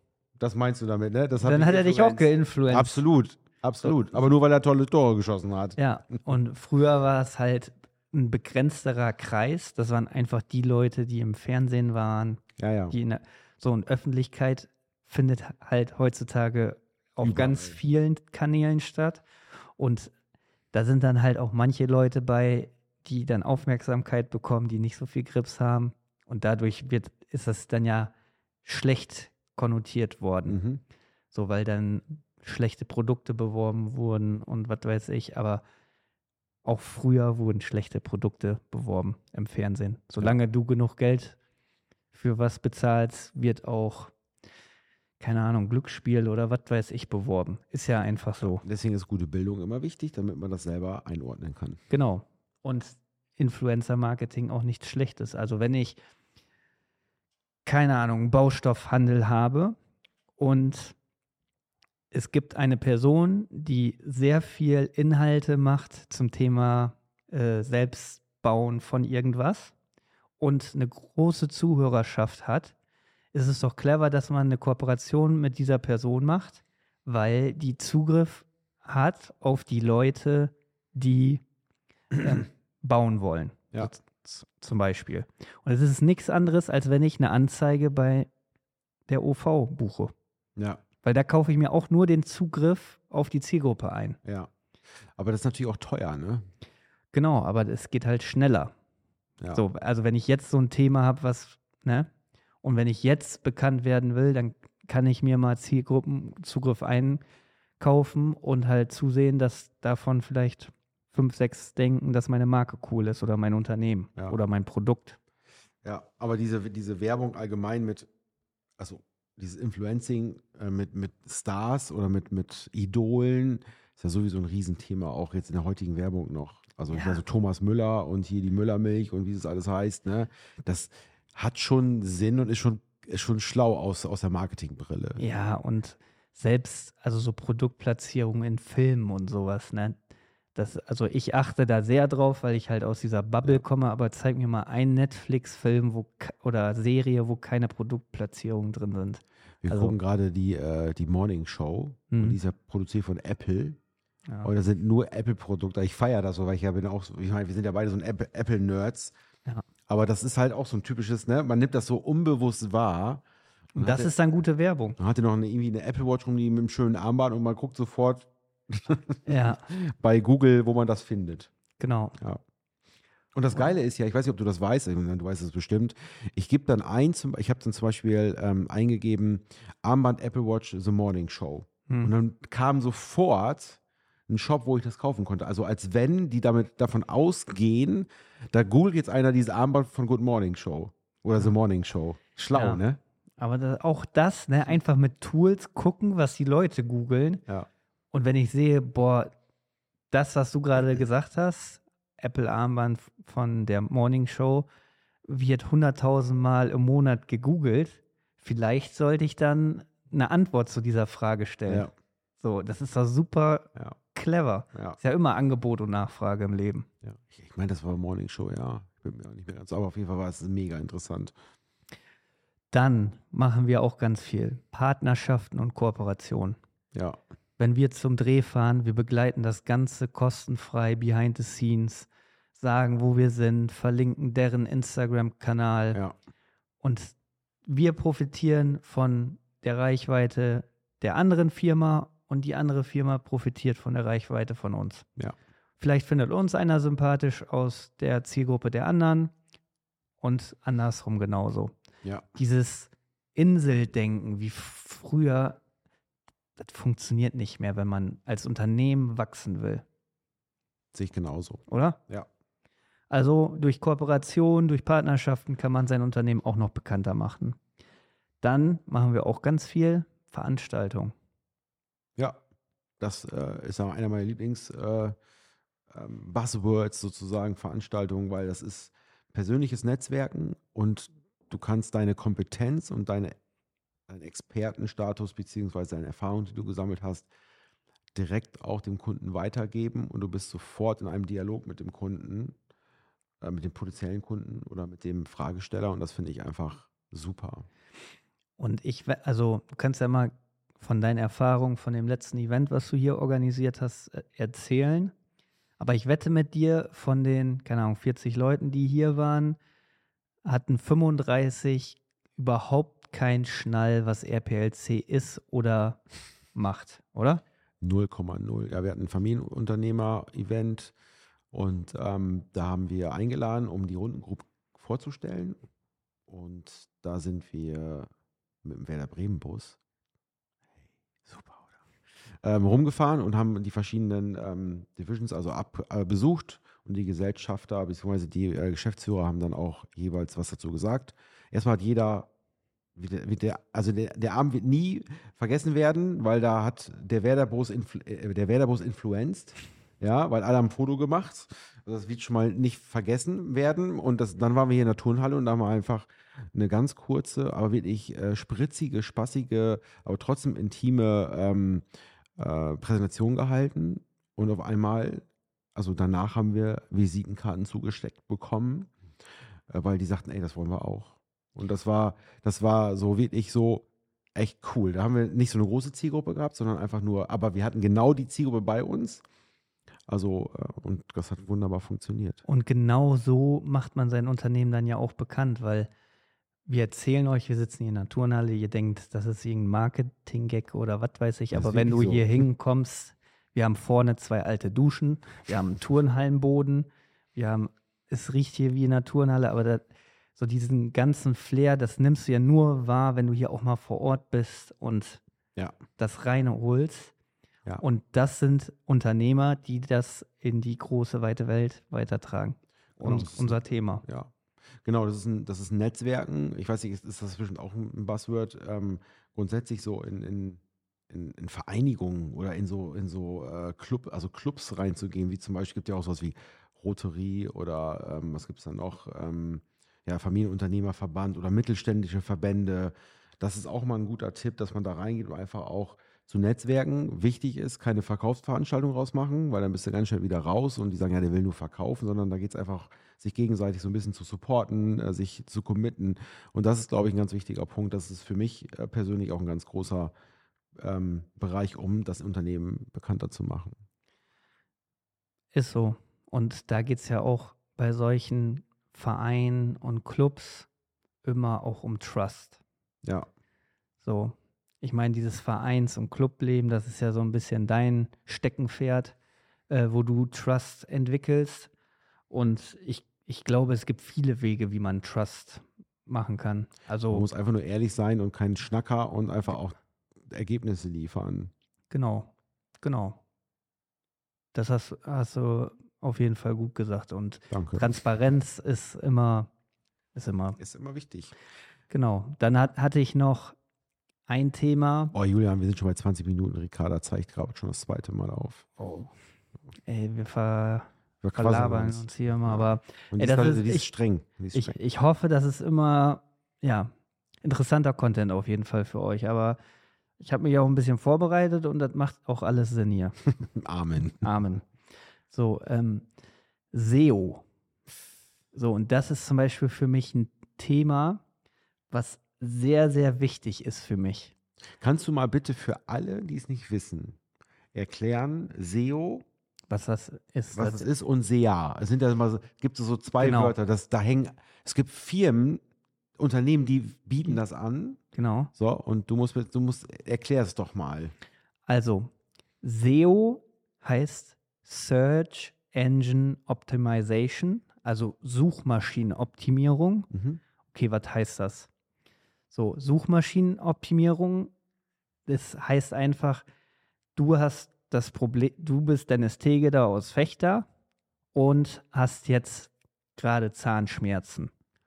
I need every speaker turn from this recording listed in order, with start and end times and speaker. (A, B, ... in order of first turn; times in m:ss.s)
0:00.4-0:05.8 A
0:01.4-0:03.0 B
0:03.8-0:04.2 B
0:05.8-0:19.2 B
0:12.6-0:13.0 A
0:17.2-0:17.8 A
0:19.8-0:20.1 B
0:20.7-0:30.6 B
0:30.5-0:30.8 A
0:31.3-0:35.6 B
0:36.6-0:41.4 B
0:42.1-0:44.1 B
0:45.2-0:48.6 B
0:48.4-0:51.8 A
0:51.9-0:56.0 B
0:57.6-0:59.8 B
1:00.4-1:01.0 B
1:02.1-1:09.7 B
1:10.4-1:12.8 B
1:13.3-1:21.4 B
1:22.2-1:28.3 B
1:29.1-1:30.1 B
1:30.6-1:30.8 A
1:31.0-1:34.2 B
1:34.2-1:34.5 A
1:35.2-1:36.5 A
1:37.1-1:38.7 B
1:39.5-1:42.1 B
1:42.6-1:47.2 B
1:47.8-1:55.2 B
1:55.8-1:58.1 A
1:58.8-2:15.2 A
2:06.9-2:07.2 B
2:15.2-2:20.0 B
2:20.6-2:30.0 B
2:29.6-2:33.8 A
2:32.1-2:32.4 B
2:34.4-2:39.2 A
2:39.9-2:43.2 A
2:43.8-2:45.0 B
2:43.8-2:44.1 A
2:45.0-2:51.5 A
2:49.3-2:49.6 B
2:51.8-2:52.2 B
2:53.3-3:13.0 A
3:12.5-3:12.8 B
3:13.4-3:17.4 B
3:18.1-3:19.3 B
3:20.1-3:24.7 B
3:25.3-3:31.9 B
3:31.7-3:31.9 A
3:32.4-3:36.9 B
3:34.7-3:35.0 A
3:37.0-3:41.3 A
3:42.7-3:46.6 B
3:46.9-3:47.2 A
3:47.6-3:56.0 B
3:56.8-4:05.1 B
4:05.8-4:09.3 B
4:10.2-4:11.7 B
4:12.4-4:15.6 B
4:16.6-4:19.8 B
4:20.9-4:22.3 A
4:21.7-4:22.0 B
4:23.1-4:27.6 B
4:28.4-4:31.2 B
4:33.0-4:35.2 A
4:35.9-4:43.4 A
4:44.1-4:47.3 A
4:48.2-4:52.6 A
4:53.4-4:57.7 A
4:58.6-5:05.1 B
5:05.8-5:09.6 B
5:10.4-5:16.0 B
5:16.6-5:17.4 B
5:17.8-5:20.9 A
5:21.5-5:25.6 A
5:26.3-5:28.1 A
5:28.6-5:29.8 A
5:30.9-5:31.8 A
5:32.4-5:42.3 A
5:43.0-6:01.8 A
6:02.4-6:08.9 A
6:09.7-6:19.2 A
6:20.1-6:22.4 A
6:22.4-6:25.9 B
6:26.7-6:45.2 B
6:31.5-6:32.3 A
6:46.0-6:47.1 B
6:47.8-6:54.0 B
6:53.0-6:54.3 A
6:54.8-7:30.1 A
7:30.8-7:33.8 A
7:35.5-7:40.7 B
7:41.2-7:42.6 B
7:44.0-7:49.2 B
7:49.7-7:51.7 B
7:52.3-7:57.3 B
7:57.1-8:01.5 A
8:01.9-8:03.2 B
8:04.5-8:09.5 B
8:07.5-8:07.9 A
8:10.2-8:10.6 B
8:10.6-8:11.3 A
8:11.9-8:13.6 B
8:14.3-8:15.2 B
8:15.1-8:18.7 A
8:18.8-8:19.1 B
8:19.9-8:23.8 B
8:21.2-8:24.8 A
8:24.5-8:26.9 B
8:27.4-8:29.6 B
8:30.2-8:33.2 B
8:33.6-8:34.3 A
8:34.0-8:34.7 B
8:35.3-8:36.1 B
8:36.7-8:37.4 B
8:38.5-8:41.2 B
8:41.9-8:44.3 B
8:44.8-8:47.2 A
8:47.7-8:49.2 A
8:49.7-8:50.9 B
8:50.5-8:55.6 A
8:53.2-8:53.6 B
8:56.2-8:58.0 A
8:58.1-8:58.5 B
8:58.6-9:01.1 A
9:01.7-9:02.1 B
9:02.6-9:10.1 B
9:10.1-9:10.4 A
9:10.7-9:11.7 B
9:12.5-9:14.5 B
9:15.3-9:16.4 B
9:17.2-9:20.7 B
9:21.3-9:24.5 B